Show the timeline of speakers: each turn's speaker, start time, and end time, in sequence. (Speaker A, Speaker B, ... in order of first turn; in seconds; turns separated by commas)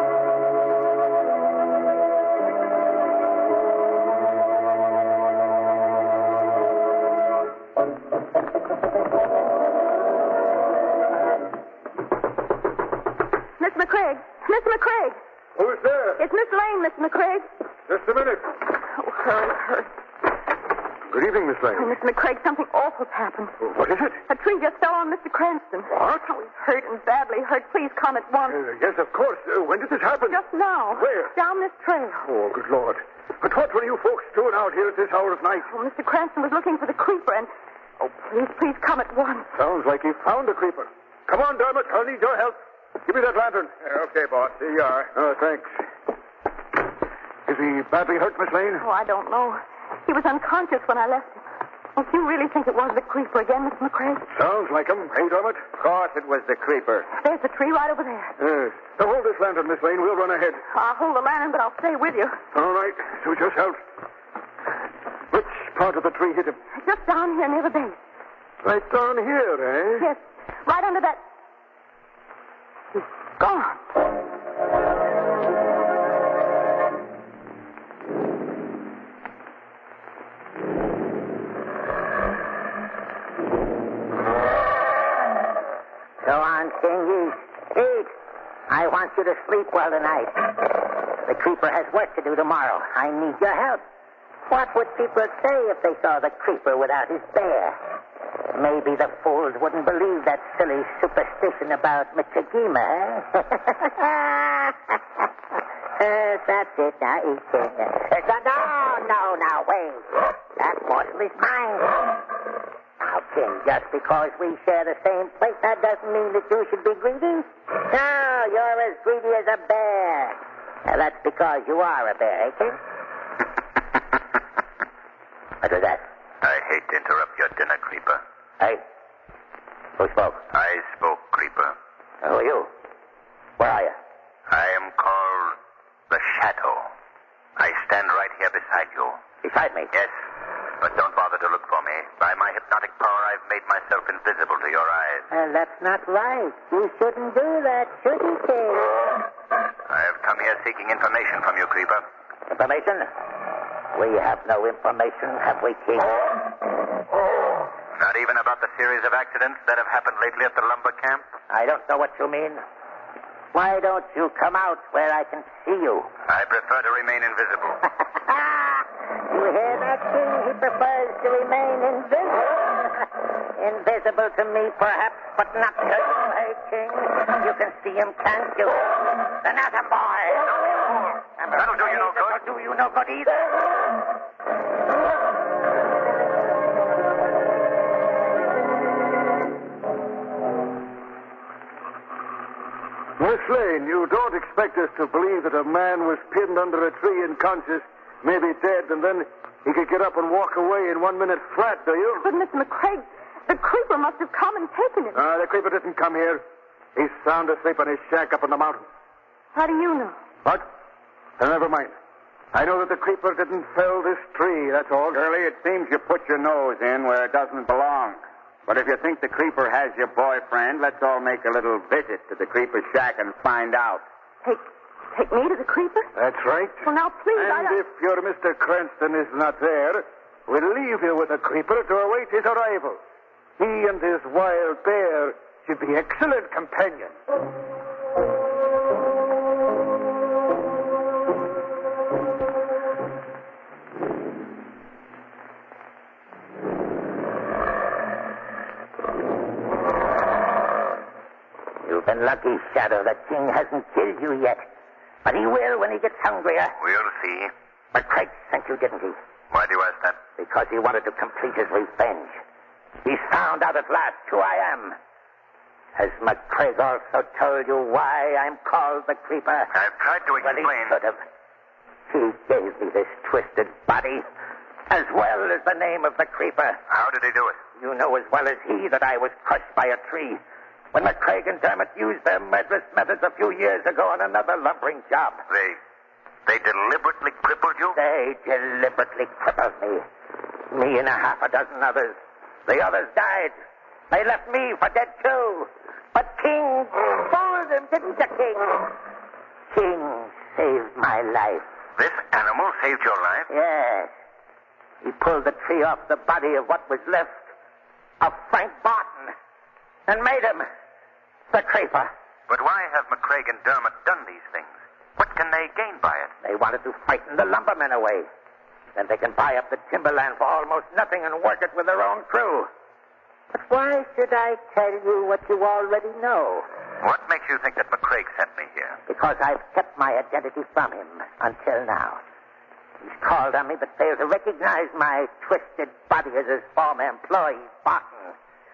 Speaker A: 13.6-15.2, Speaker B: 15.6-16.2, Speaker A: 16.2-17.5, Speaker B: 17.9-18.5, Speaker A: 18.7-19.9, Speaker B: 21.1-22.0, Speaker A: 21.7-23.6, Speaker B: 23.6-24.2, Speaker A: 24.3-28.6, Speaker B: 28.5-30.4, Speaker A: 30.3-32.3, Speaker B: 30.9-31.3, Speaker B: 32.2-35.7, Speaker A: 35.7-39.5, Speaker B: 39.5-43.7, Speaker C: 43.8-45.1, Speaker B: 45.1-45.7, Speaker B: 47.5-48.9, Speaker A: 48.8-51.4, Speaker A: 52.0-54.3, Speaker B: 54.3-55.6, Speaker C: 55.8-57.1, Speaker A: 57.1-58.4, Speaker B: 58.4-60.6, Speaker A: 60.7-62.4, Speaker B: 62.5-63.8, Speaker B: 65.3-66.6, Speaker A: 66.8-68.0, Speaker B: 68.6-70.1, Speaker A: 70.0-71.2, Speaker A: 72.9-73.9, Speaker D: 86.2-88.1, Speaker D: 88.7-93.8, Speaker D: 94.5-97.8, Speaker D: 98.5-105.0, Speaker D: 106.0-112.2, Speaker D: 113.0-122.8, Speaker D: 125.6-126.0, Speaker E: 126.4-128.2, Speaker D: 130.0-130.4, Speaker E: 130.5-131.8, Speaker D: 132.2-132.7, Speaker D: 133.6-134.0, Speaker E: 134.5-135.6, Speaker E: 136.1-136.9, Speaker E: 137.6-139.2, Speaker D: 139.4-139.9, Speaker E: 140.8-145.3, Speaker D: 145.3-149.2, Speaker E: 149.9-152.1, Speaker D: 152.5-153.1, Speaker D: 153.9-156.4, Speaker E: 157.9-161.2, Speaker D: 161.5-162.6, Speaker D: 163.5-166.1, Speaker E: 166.3-167.8, Speaker D: 168.2-180.7, Speaker E: 180.6-182.4, Speaker D: 181.4-183.7, Speaker B: 193.2-202.3, Speaker A: 202.2-205.2, Speaker B: 205.2-206.4, Speaker B: 206.9-208.9, Speaker A: 209.5-210.2, Speaker B: 211.4-212.0, Speaker B: 212.5-215.2, Speaker C: 215.1-224.0, Speaker A: 225.1-226.1, Speaker B: 226.2-233.0, Speaker A: 226.8-227.8, Speaker B: 233.6-237.2, Speaker D: 251.8-254.7, Speaker D: 255.2-256.8, Speaker E: 256.8-257.5, Speaker D: 257.9-259.2, Speaker E: 259.5-260.2, Speaker D: 260.4-262.4, Speaker D: 263.0-265.0, Speaker D: 266.0-269.7, Speaker E: 269.7-271.0, Speaker D: 270.4-271.2, Speaker D: 272.1-274.2, Speaker D: 274.9-276.8, Speaker E: 276.9-277.6, Speaker D: 277.8-280.4, Speaker D: 280.9-285.4, Speaker E: 285.5-285.8, Speaker E: 286.5-288.0, Speaker D: 287.9-290.0, Speaker D: 290.7-293.6, Speaker D: 294.1-298.9, Speaker D: 299.7-301.6, Speaker E: 302.0-303.5, Speaker D: 303.5-304.1, Speaker D: 305.0-307.4, Speaker D: 308.2-309.3, Speaker D: 310.1-310.7, Speaker D: 311.5-312.1, Speaker E: 312.5-316.3, Speaker D: 316.4-318.3, Speaker D: 318.9-322.7, Speaker D: 323.5-326.7, Speaker E: 327.0-329.0, Speaker D: 329.1-332.2, Speaker D: 333.0-338.3